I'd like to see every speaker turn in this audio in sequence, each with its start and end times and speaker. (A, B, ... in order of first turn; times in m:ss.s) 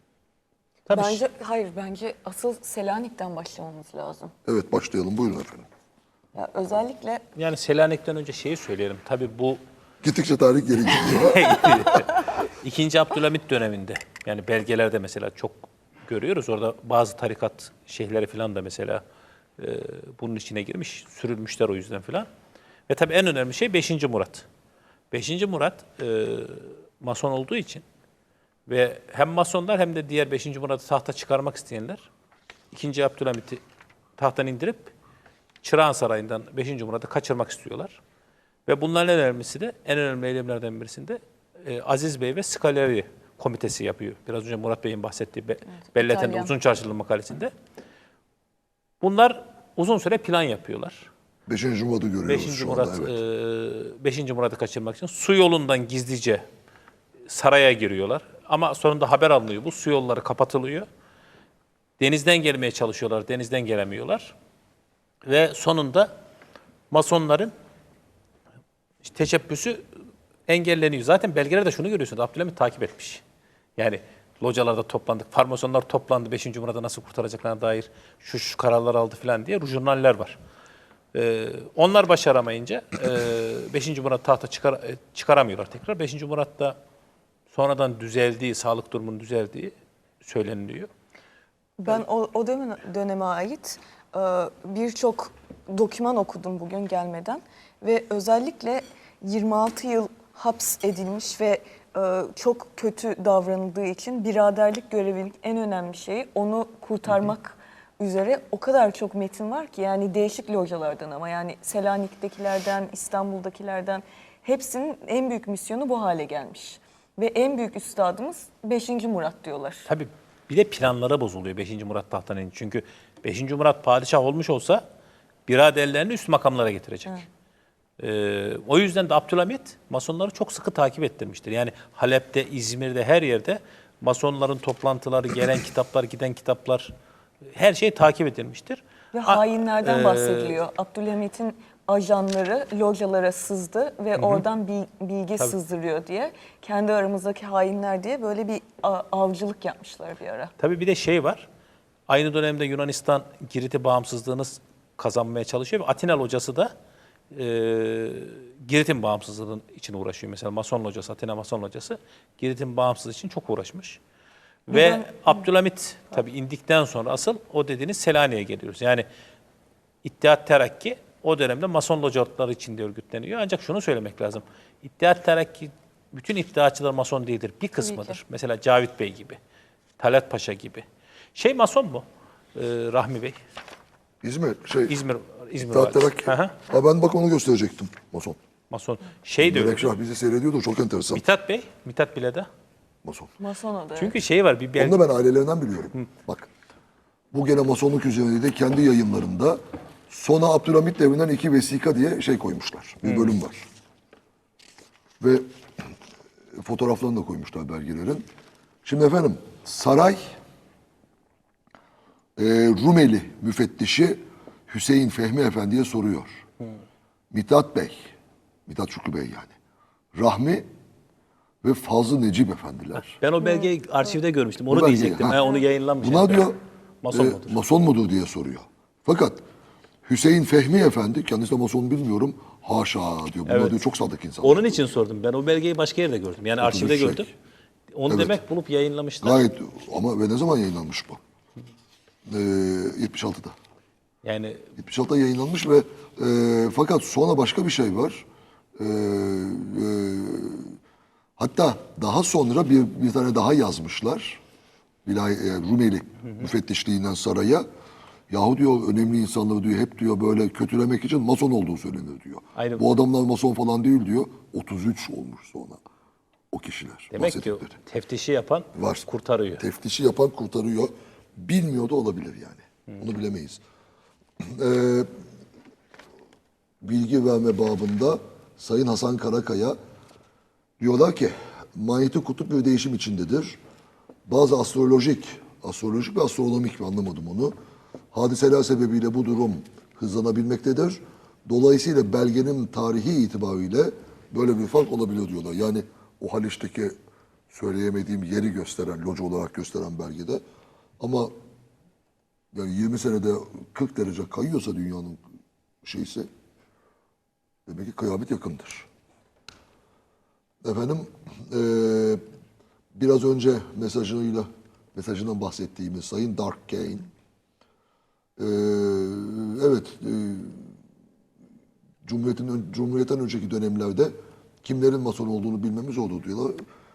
0:00.8-0:01.2 A
0:00.9-0:04.3 B
0:04.4-0:05.7 C
0:06.3-0:07.2 B
0:07.3-0:09.6 A
0:10.0-0:11.7 C
0:10.9-0:19.0 A
0:19.6-0:22.3 A
0:22.9-0:24.4 A
0:25.1-0:27.8 A
0:28.7-0:32.0 A
0:32.7-0:33.6 A
0:34.2-0:34.9 A
0:35.6-0:38.0 A
0:38.7-0:47.5 A
0:45.9-0:46.5 B
0:49.0-0:51.1 A
0:51.5-0:53.2 C
0:52.2-0:56.4 A
0:57.3-1:00.9 A
1:02.0-1:04.3 A
1:05.2-1:06.1 A
1:06.9-1:07.5 A
1:09.0-1:09.8 A
1:10.5-1:13.2 A
1:13.8-1:20.4 A
1:21.1-1:26.8 A
1:27.5-1:30.9 A
1:31.8-1:59.9 B
1:59.9-2:04.8 A
2:05.5-2:07.2 A
2:08.0-2:16.9 A
2:17.5-2:20.6 A
2:19.1-2:30.5 B
2:24.2-2:24.4 A
2:30.6-2:31.5 A
2:32.1-2:36.7 A
2:37.3-2:44.0 A
2:44.7-2:49.0 A
2:44.7-2:45.4 B
2:50.0-2:59.4 A
2:57.8-2:58.2 B
3:00.0-3:00.8 A
3:01.3-3:02.0 A
3:02.5-3:03.4 A
3:04.2-3:05.0 C
3:04.9-3:06.5 A
3:05.6-3:08.4 C
3:08.7-3:10.0 A
3:09.4-3:11.2 C
3:11.1-3:12.5 A
3:13.0-3:13.3 C
3:13.4-3:14.1 B
3:14.0-3:15.0 A
3:14.8-3:16.5 C
3:17.3-3:23.6 C
3:23.0-3:23.4 A
3:25.2-3:25.5 C
3:26.6-3:28.2 C
3:28.8-3:30.4 C
3:32.4-3:36.4 C
3:37.3-3:38.1 C
3:38.7-3:39.5 C
3:40.2-3:40.7 C
3:41.6-3:43.2 C
3:43.1-3:47.6 A
3:44.7-3:45.4 C
3:46.0-3:46.6 C
3:47.1-3:49.4 C
3:50.0-3:54.8 C
3:53.5-3:53.8 A
3:54.4-3:57.3 A
3:56.6-3:57.2 C
3:57.9-3:59.4 A
3:58.1-3:58.3 C
3:59.2-4:01.2 C
4:02.3-4:03.5 C
4:04.2-4:04.7 A
4:04.8-4:08.2 C
4:08.8-4:10.8 C
4:11.4-4:14.4 C
4:15.0-4:17.6 C
4:18.3-4:25.8 C
4:22.6-4:22.8 A
4:26.5-4:27.8 C
4:27.1-4:29.6 A
4:28.7-4:33.6 C
4:34.4-4:35.1 C
4:36.8-4:39.8 C
4:40.8-4:43.6 C
4:44.3-4:47.5 C
4:48.1-4:56.9 C
4:57.5-5:00.4 C
5:01.0-5:01.3 C
5:02.5-5:05.2 C
5:05.8-5:06.3 C
5:07.7-5:08.9 C
5:10.6-5:12.2 C
5:12.9-5:17.1 C
5:18.4-5:20.7 C
5:22.0-5:26.6 C